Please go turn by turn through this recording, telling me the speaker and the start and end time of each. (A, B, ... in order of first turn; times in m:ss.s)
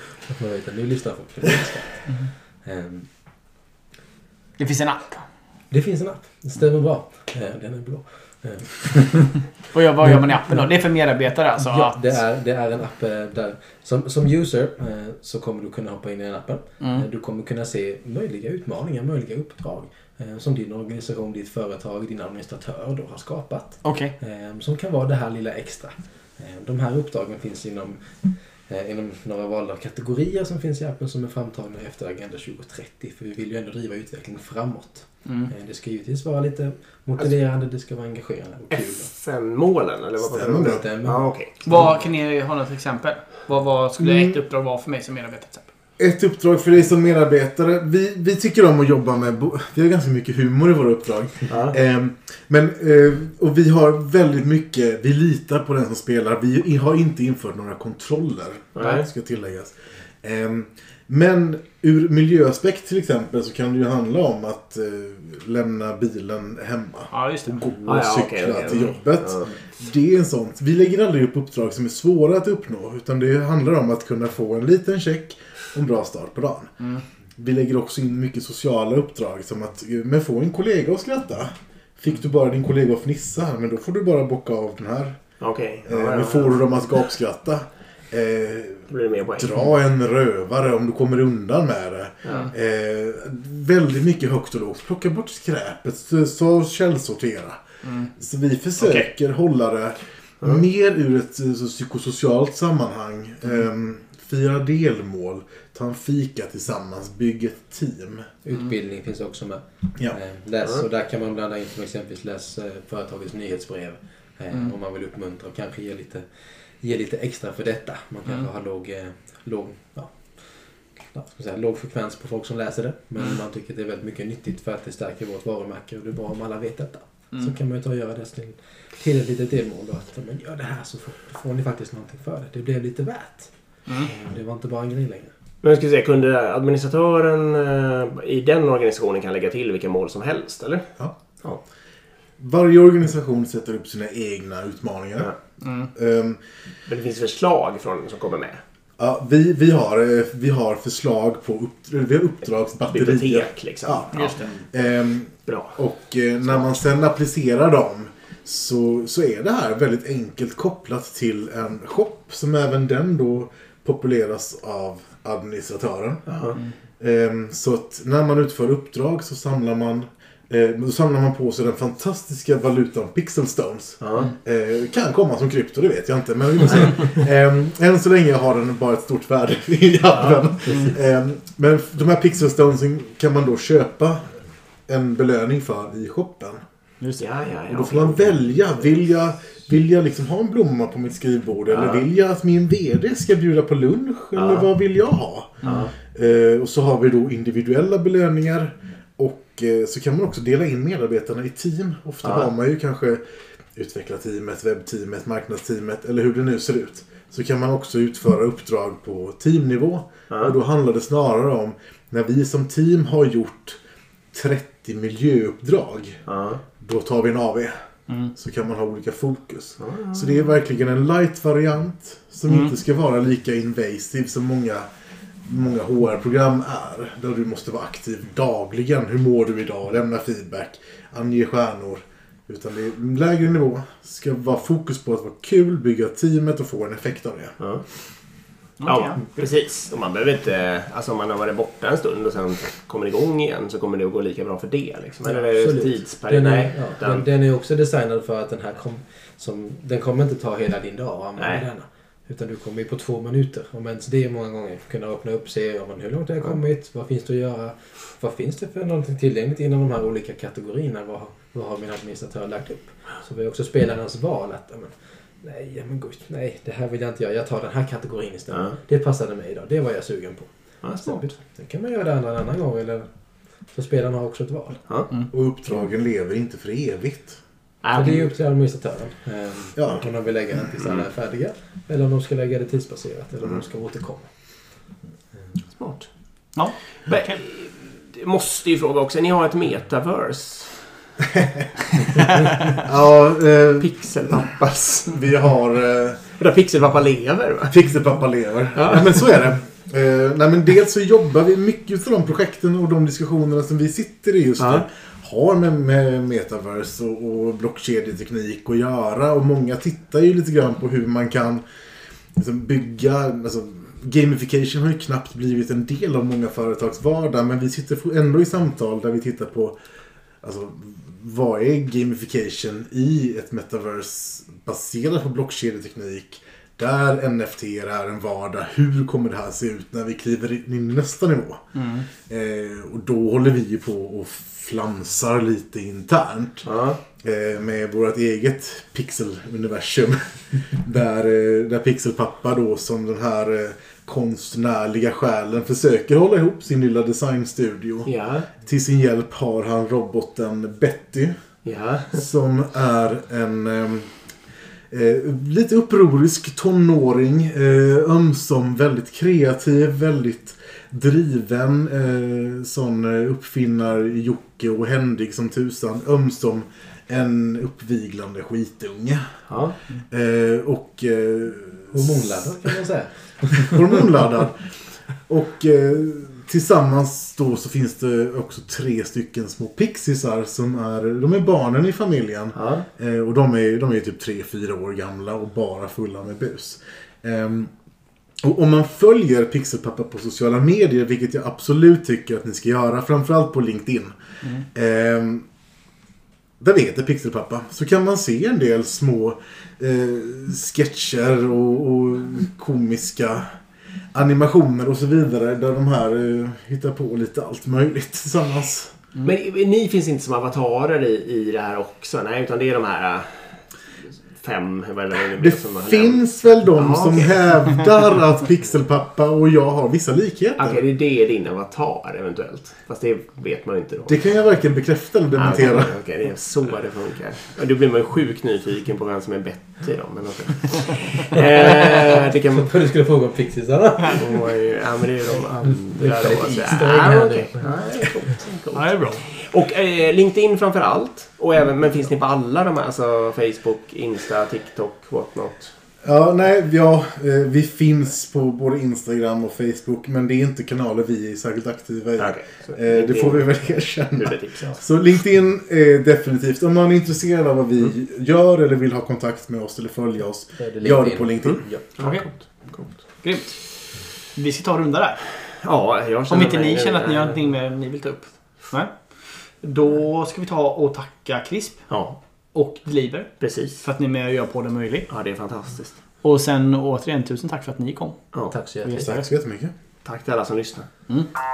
0:00.3-0:03.5 A
0:04.6-0:05.3 B
0:05.7-0:09.5 A
0:09.7-0:12.2 B
0:10.0-0:10.7 A
0:11.6-0:39.1 A
0:16.8-0:17.0 B
0:23.8-0:24.1 B
0:35.2-0:35.5 B
0:38.7-0:41.6 C
0:40.2-0:40.8 D
0:40.6-0:41.9 A
0:41.6-0:45.7 B
0:46.0-1:16.7 D
0:51.5-0:51.8 C
0:58.7-0:59.1 C
1:07.1-1:07.6 B
1:07.8-1:09.5 C
1:17.4-1:37.6 D
1:25.4-1:26.6 C
1:28.9-1:29.6 C
1:32.2-1:32.5 C
1:37.8-1:38.1 B
1:38.2-1:48.3 D
1:38.8-1:39.1 C
1:48.4-2:15.3 A
2:13.8-2:14.1 B
2:15.6-2:21.6 C
2:22.4-2:25.3 D
2:25.6-2:25.9 B
2:25.9-2:26.4 D
2:26.9-2:28.6 C
2:29.0-3:06.6 D
2:32.9-2:34.4 C
2:34.1-2:34.5 B
2:35.5-2:35.8 C
2:46.3-2:46.6 C
2:54.0-2:54.3 C
3:00.1-3:00.9 C
3:07.0-3:07.2 B
3:07.2-3:09.0 C
3:07.7-3:23.2 D
3:11.7-3:12.0 C
3:14.3-3:14.7 C
3:15.6-3:15.9 C
3:22.2-3:22.5 C
3:23.7-3:33.8 D
3:30.3-3:30.5 C
3:34.3-3:36.2 D
3:36.2-3:36.6 C
3:36.8-3:37.7 D
3:38.3-3:44.9 D
3:39.8-3:40.5 C
3:42.5-3:42.7 B
3:45.4-3:57.6 D
3:57.6-3:57.8 C
3:58.8-3:59.2 B
3:58.8-4:07.2 C
4:05.3-4:35.1 A
4:11.4-4:11.6 C
4:28.5-4:28.8 C
4:30.8-4:31.2 C
4:35.3-4:37.4 D
4:37.8-4:38.3 C
4:37.9-4:44.8 A
4:39.7-4:40.0 D
4:40.8-4:41.0 C
4:45.3-4:45.6 A
4:45.8-4:46.1 C
4:46.5-4:47.4 B
4:47.1-4:50.9 C
4:52.8-4:54.4 D
4:53.8-4:55.2 C
4:55.1-4:56.2 D
4:56.4-4:57.7 C
4:57.7-5:11.6 D
4:58.7-4:59.2 C
5:04.6-5:04.8 C
5:12.3-5:19.8 D
5:20.4-5:51.4 D
5:31.7-5:32.0 B
5:36.6-5:37.0 C
5:48.0-5:48.5 C
5:51.6-5:52.2 C
5:52.1-5:54.1 D
5:54.9-6:09.5 D
6:09.5-6:09.8 C
6:10.1-6:12.8 D
6:11.9-6:14.0 A
6:13.6-6:14.7 D
6:15.2-6:27.7 D
6:22.5-6:22.8 C
6:28.4-6:34.2 D
6:34.7-6:35.4 D
6:36.6-6:43.5 D
6:44.1-6:48.9 D
6:49.2-6:53.7 C
6:54.3-6:58.0 C
6:55.4-7:00.8 D
7:00.6-7:04.3 C
7:04.0-7:05.9 D
7:05.3-7:12.8 C
7:12.5-7:14.5 A
7:14.2-7:25.8 C
7:15.3-7:18.4 A
7:18.7-7:19.2 B
7:26.0-7:42.1 D
7:32.2-7:34.8 C
7:40.6-7:41.8 A
7:41.4-7:43.0 C
7:42.0-7:45.2 B
7:45.6-7:47.4 C
7:46.3-7:55.1 B
7:51.9-7:52.2 C
7:53.4-7:53.8 C
7:55.1-7:56.0 C
7:56.2-7:59.3 B
7:58.5-7:59.0 A
7:59.0-7:59.7 D
8:00.0-8:01.1 C